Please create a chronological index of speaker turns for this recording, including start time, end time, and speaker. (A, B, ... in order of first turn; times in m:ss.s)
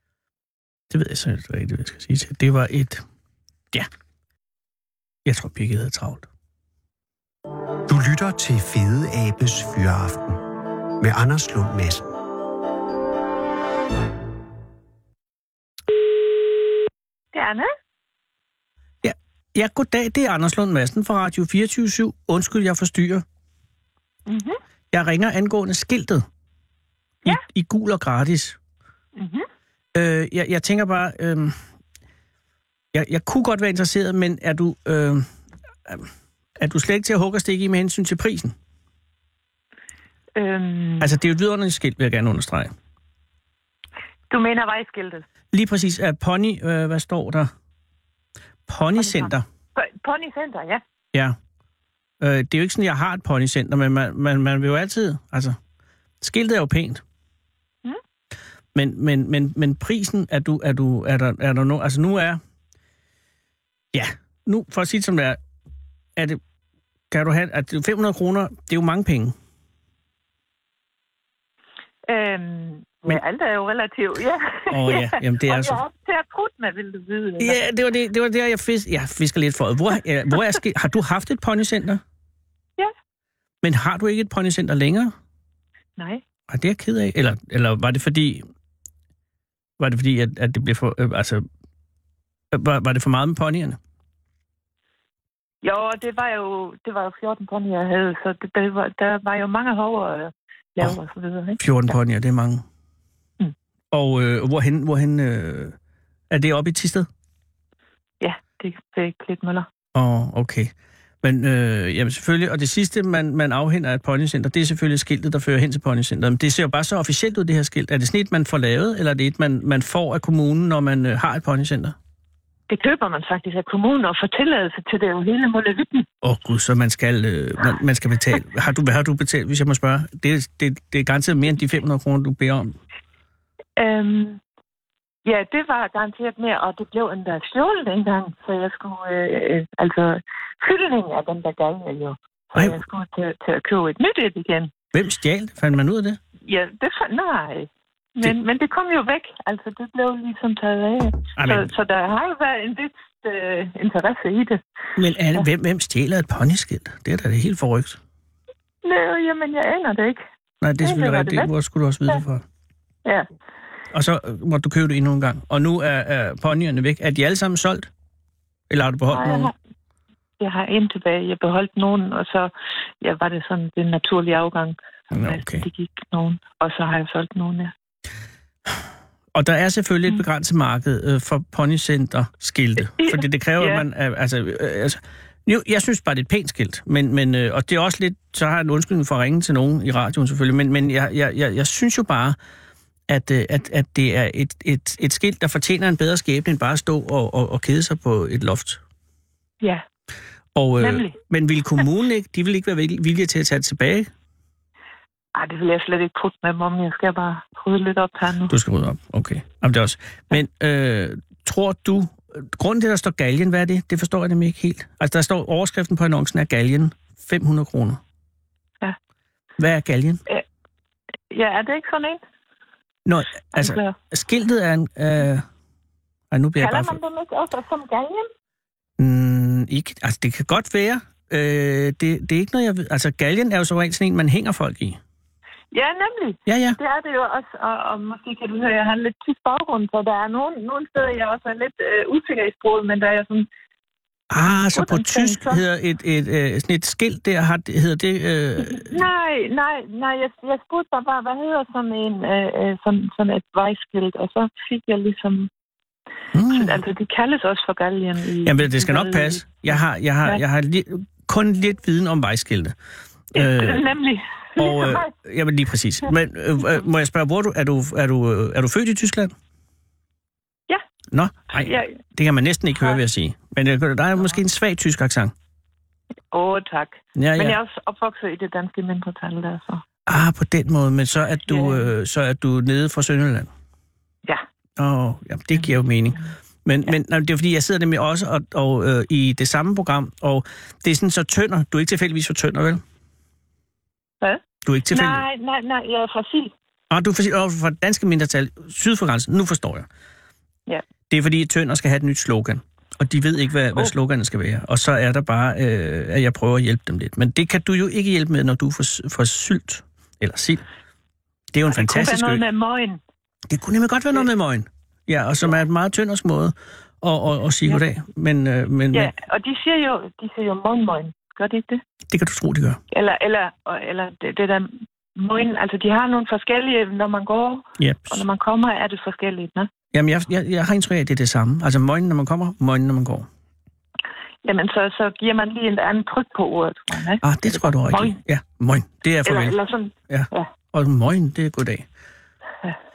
0:00.9-0:03.0 A
0:05.2-0:06.3 A
0:07.9-0:10.4 B
0:11.0-0:12.1 B
0:17.3-0:17.7 C
0:19.0-0:23.2 A
0:24.3-0:24.6 C
0:24.9-0:26.2 A
0:27.2-0:28.6 A
0:29.2-0:29.4 C
0:29.9-0:31.6 A
0:32.9-0:35.3 A
0:35.9-0:38.6 A
0:40.4-0:41.1 C
0:41.0-0:42.7 A
0:44.3-0:45.2 C
0:45.5-0:47.5 A
0:48.7-0:49.4 A
0:49.0-0:50.8 C
0:52.2-0:55.6 A
0:56.2-0:57.0 A
0:58.8-1:02.4 A
1:03.9-1:05.4 A
1:06.2-1:06.4 A
1:07.1-1:09.3 A
1:12.1-1:17.6 C
1:14.7-1:15.8 A
1:17.4-1:22.0 A
1:23.6-1:25.1 A
1:26.0-1:26.2 C
1:26.5-1:28.4 A
1:29.8-1:31.5 A
1:32.5-1:33.8 A
1:35.6-1:41.9 C
1:41.6-1:42.6 A
1:43.9-1:45.8 A
1:46.3-1:47.1 A
1:48.2-1:49.7 C
1:49.9-2:02.0 A
2:02.7-2:06.1 C
2:06.2-2:12.8 A
2:13.8-2:14.4 C
2:15.2-2:24.7 C
2:24.9-2:26.2 A
2:26.5-2:34.6 C
2:31.4-2:31.7 A
2:35.0-2:38.0 A
2:38.8-2:40.2 C
2:40.6-2:42.4 A
2:40.8-2:41.5 C
2:43.9-2:47.9 A
2:48.7-2:49.5 A
2:49.1-2:49.5 C
2:50.4-2:57.7 C
2:55.1-2:55.7 A
2:59.3-3:12.4 A
3:02.9-3:03.8 C
3:13.1-3:18.8 A
3:20.5-3:24.1 A
3:20.8-3:21.2 C
3:25.4-3:28.5 C
3:28.5-3:38.0 A
3:39.6-3:40.2 A
3:41.3-3:42.2 C
3:43.0-3:45.4 A
3:43.5-3:44.0 C
3:46.3-3:47.0 A
3:46.6-3:48.3 C
3:49.0-3:55.0 A
3:55.7-4:03.5 C
3:56.5-3:56.8 A
4:04.3-4:09.0 A
4:04.7-4:05.6 C
4:08.6-4:15.5 C
4:16.3-4:16.8 A
4:16.5-4:20.4 C
4:18.4-4:22.8 A
4:23.3-4:23.8 A
4:23.4-4:25.1 C
4:24.6-4:29.3 A
4:31.1-4:35.3 A
4:31.6-4:31.9 C
4:36.3-4:39.8 C
4:37.1-4:37.6 A
4:40.1-4:43.5 A
4:41.5-4:41.9 C
4:44.8-4:52.8 A
4:54.2-4:56.5 C
4:54.6-4:55.2 A
4:56.9-4:59.9 A
5:01.1-5:10.6 A
5:11.5-5:12.4 A
5:11.7-5:13.0 C
5:13.5-5:19.1 A
5:18.9-5:21.8 C
5:22.1-5:22.8 A
5:22.9-5:29.7 C
5:27.8-5:28.2 A
5:29.9-5:33.3 A
5:34.4-5:38.2 C
5:37.2-5:39.6 A
5:39.2-5:40.5 C
5:40.1-5:41.9 A